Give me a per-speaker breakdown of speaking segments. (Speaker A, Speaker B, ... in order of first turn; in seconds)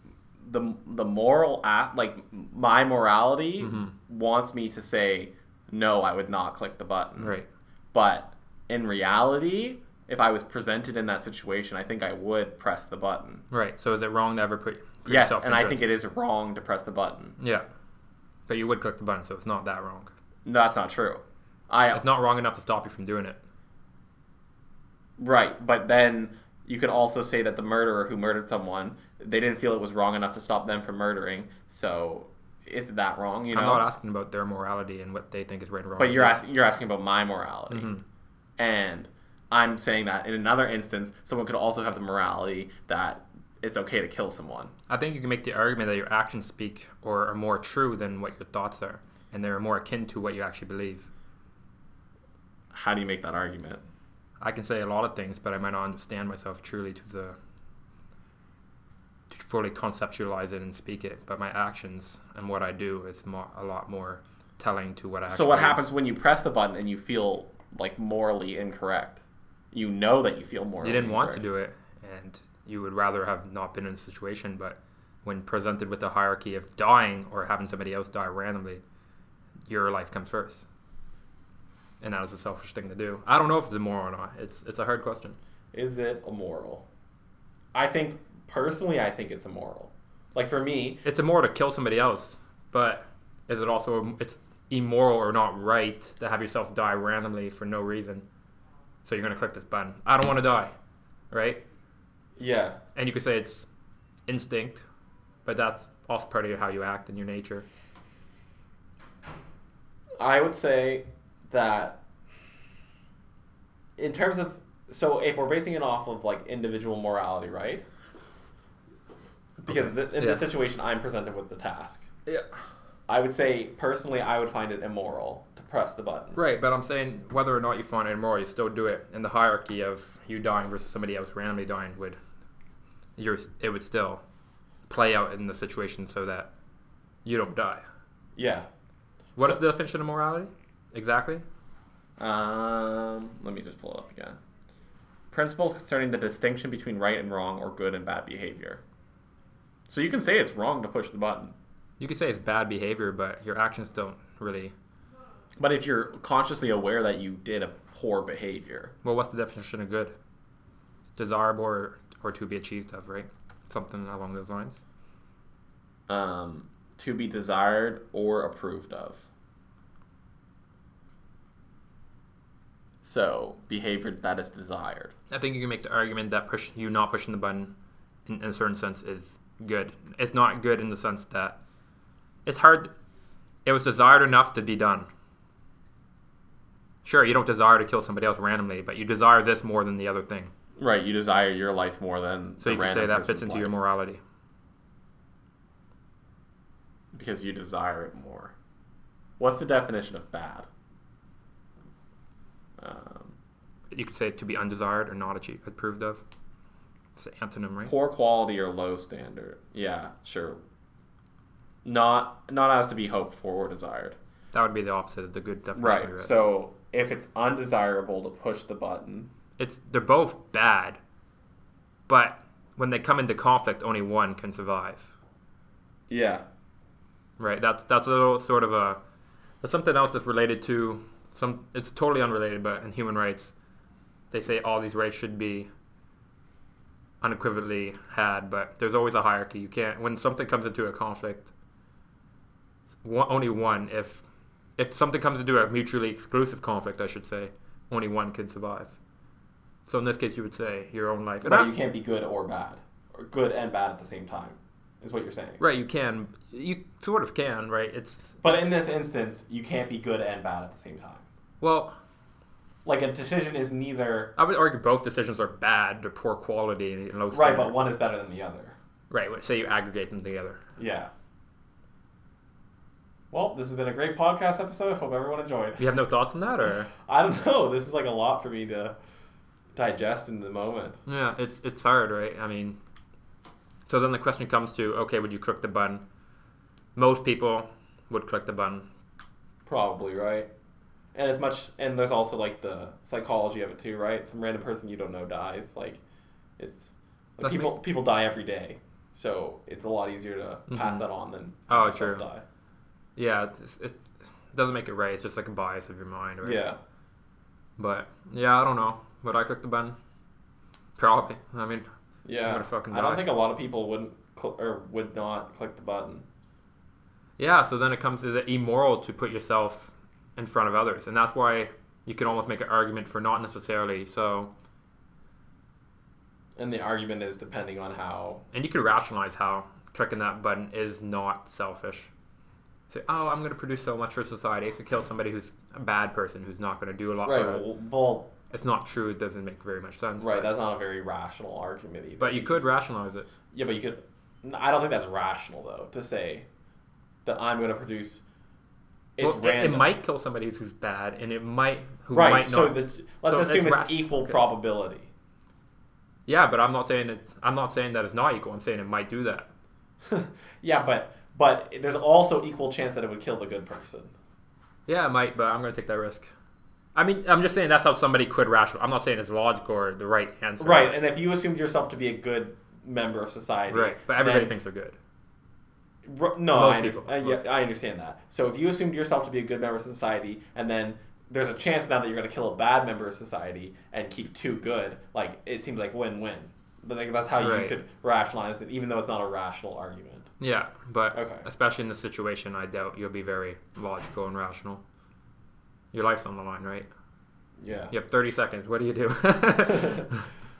Speaker A: 0.4-7.3, 7.9-13.4, 15.1-17.4, 20.4-22.0, 25.2-33.9, 36.0-37.9, 38.6-44.7, 52.7-53.8, 65.3-71.4, 85.7-86.8, 87.7-91.0, 102.4-102.8, 110.2-112.0, 114.0-117.8, 119.6-122.1, 123.1-126.4, 138.3-138.7, 142.2-144.4, 145.3-148.8, 149.9-151.5, 155.6-158.9, 166.1-169.3, 173.0-175.1, 190.8-193.8, 197.1-198.5, 199.4-200.7, 202.8-203.3, 207.8-210.6, 211.8-214.2, 215.7-219.3, 226.1-226.4, 251.4-255.6, 258.4-261.2, 262.8-264.3, 267.3-268.8, 270.8-271.1, 273.3-275.9, 277.0-278.9, 279.7-281.0, 289.6-290.5, 291.1-296.0, 296.6-302.4, 306.4-306.8, 312.2-316.2, 326.6-328.4, 337.2-338.3, 340.2-342.7, 343.5-346.4, 347.2-348.2, 349.2-349.9, 352.1-355.1, 360.0-364.1, 370.6-374.5, 376.0-390.3, 391.1-391.5, 397.6-397.9, 399.6-400.1
Speaker B: 3.6-3.9, 7.2-7.5, 13.5-15.9, 17.4-17.6, 18.5-20.1, 21.9-23.4, 33.5-36.4, 37.7-38.0, 44.9-51.1, 54.4-57.4, 59.3-65.9, 70.8-78.8, 79.7-80.6, 82.0-85.4, 91.0-98.2, 99.0-100.7, 101.3-101.6, 102.9-103.7, 104.3-104.8, 105.4-107.7, 119.7-120.5, 126.3-132.2, 133.2-134.2, 134.9-136.5, 137.2-137.8, 139.4-141.4, 152.0-154.7, 159.0-160.1, 161.2-164.8, 175.3-177.7, 178.2-181.6, 182.4-182.9, 183.6-185.1, 187.0-190.5, 192.6-194.2, 203.9-206.2, 207.2-207.9, 214.5-216.3, 219.6-221.0, 222.1-225.1, 227.4-229.0, 229.6-233.5, 234.3-235.7, 237.2-241.5, 243.0-244.2, 244.8-248.9, 249.8-251.7, 255.6-258.4, 261.6-261.9, 264.4-267.8, 269.1-270.6, 275.8-276.9, 281.1-282.8, 283.9-286.0, 286.9-288.9, 297.4-297.8, 300.7-301.1, 301.7-302.2, 303.2-306.6, 307.8-309.9, 311.0-311.9, 312.4-313.3, 317.4-324.5, 328.5-332.1, 332.9-337.7, 338.5-340.5, 342.2-343.3, 349.2-354.3, 356.3-359.5, 364.9-366.3, 366.9-370.9, 373.7-375.0, 376.5-377.4, 387.4-387.8, 390.4-394.8, 395.9-396.9, 397.9-400.2